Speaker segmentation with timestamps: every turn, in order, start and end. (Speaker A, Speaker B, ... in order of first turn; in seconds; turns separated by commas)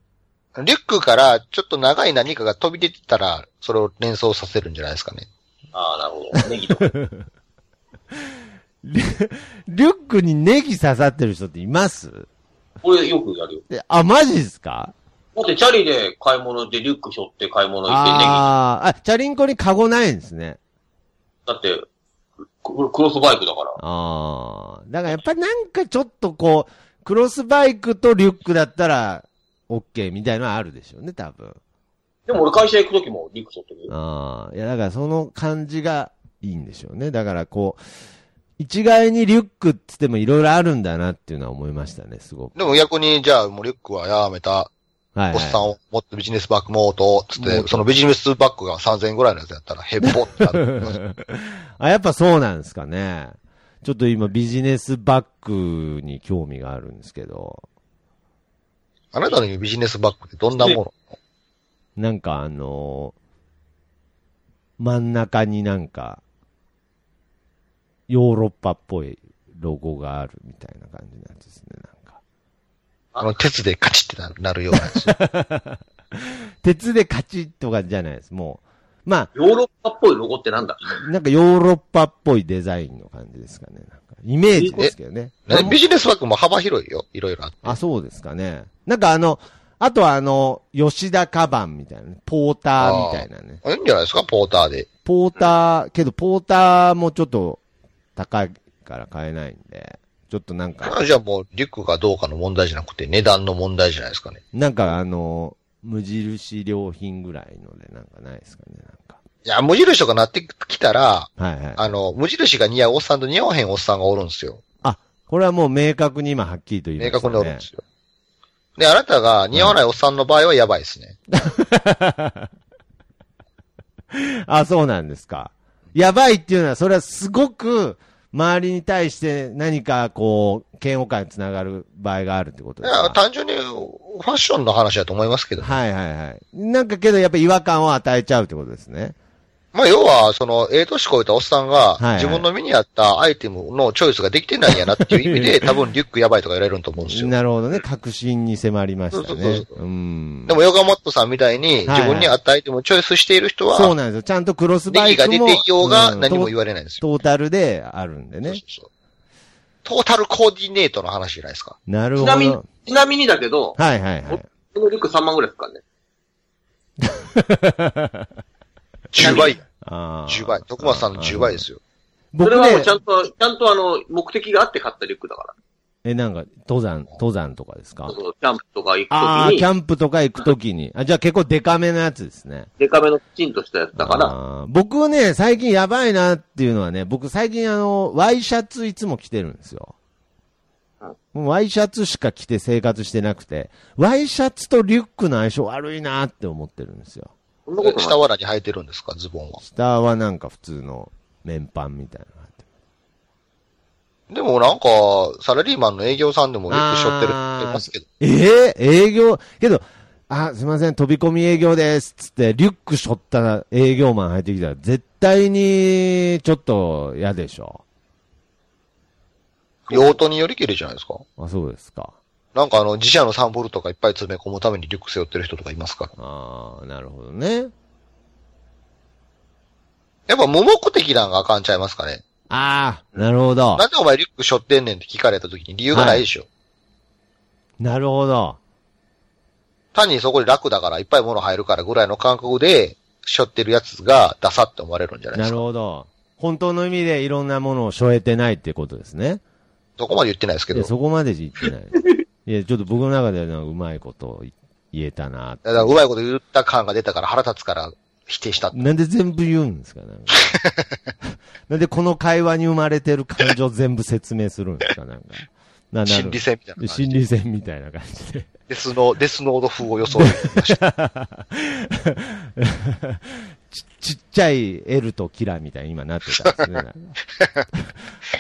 Speaker A: 0.6-5.3, Speaker B: 5.7-6.9, Speaker C: 6.8-7.2, Speaker C: 8.8-12.3, Speaker B: 12.8-13.6, Speaker C: 13.7-14.9, Speaker B: 15.3-18.5, Speaker C: 17.9-20.6, Speaker B: 21.5-21.8, Speaker B: 22.6-23.8, Speaker C: 23.8-31.6, Speaker B: 32.3-33.9, Speaker C: 33.9-37.8, Speaker C: 38.6-42.6, Speaker A: 42.6-44.7, Speaker C: 45.2-45.7, Speaker A: 45.3-51.0, Speaker C: 47.4-47.9, Speaker C: 50.9-57.6, Speaker A: 59.1-61.0, Speaker C: 62.0-63.1, Speaker C: 64.8-66.2, Speaker C: 68.1-72.2, Speaker A: 73.2-75.1, Speaker C: 75.1-75.8, Speaker C: 76.6-79.3, Speaker B: 79.3-81.0, Speaker C: 81.0-85.8, Speaker B: 84.5-84.8, Speaker A: 85.5-87.8, Speaker C: 87.6-93.6, Speaker A: 92.8-94.9, Speaker C: 95.0-97.6, Speaker C: 98.2-101.0, Speaker A: 100.8-104.4, Speaker C: 104.5-109.2, Speaker A: 109.5-114.6, Speaker C: 111.4-111.9, Speaker C: 114.8-117.7, Speaker A: 117.0-117.8, Speaker A: 118.8-121.2, Speaker C: 119.5-119.8, Speaker C: 121.4-122.5, Speaker C: 124.1-133.2, Speaker A: 132.8-135.8, Speaker C: 135.6-139.2, Speaker A: 139.7-147.3, Speaker C: 142.0-142.5, Speaker C: 145.0-145.5, Speaker C: 147.0-150.6, Speaker A: 149.1-149.7, Speaker A: 150.5-154.0, Speaker C: 151.9-152.3, Speaker C: 153.7-158.6, Speaker A: 154.9-157.0, Speaker A: 158.4-158.9, Speaker A: 159.8-161.8, Speaker C: 161.9-162.7, Speaker B: 162.2-163.8, Speaker C: 163.8-164.4, Speaker B: 164.3-165.8, Speaker C: 167.0-168.3, Speaker A: 169.1-169.6, Speaker B: 169.2-169.5, Speaker C: 169.2-171.7, Speaker A: 170.3-171.8, Speaker C: 172.3-173.0, Speaker B: 172.4-175.5, Speaker C: 176.0-178.2, Speaker B: 178.1-179.7, Speaker C: 179.1-182.7, Speaker B: 182.8-184.3, Speaker C: 184.0-189.9, Speaker C: 191.3-197.3, Speaker B: 197.7-198.2, Speaker A: 197.8-199.6, Speaker C: 199.6-202.6, Speaker A: 204.3-208.0, Speaker C: 206.7-217.8, Speaker A: 219.9-221.2, Speaker C: 219.9-220.2, Speaker C: 221.4-222.2, Speaker A: 222.6-226.1, Speaker C: 226.2-227.7, Speaker A: 230.3-232.2, Speaker C: 232.5-233.8, Speaker A: 233.8-236.5, Speaker C: 235.9-236.3, Speaker C: 237.8-238.6, Speaker A: 239.9-245.6, Speaker C: 245.3-249.4, Speaker A: 250.0-250.9, Speaker C: 250.7-256.0, Speaker A: 255.7-258.9, Speaker C: 258.7-260.5, Speaker C: 261.7-268.5, Speaker A: 266.1-267.3, Speaker A: 268.7-270.8, Speaker C: 270.1-277.2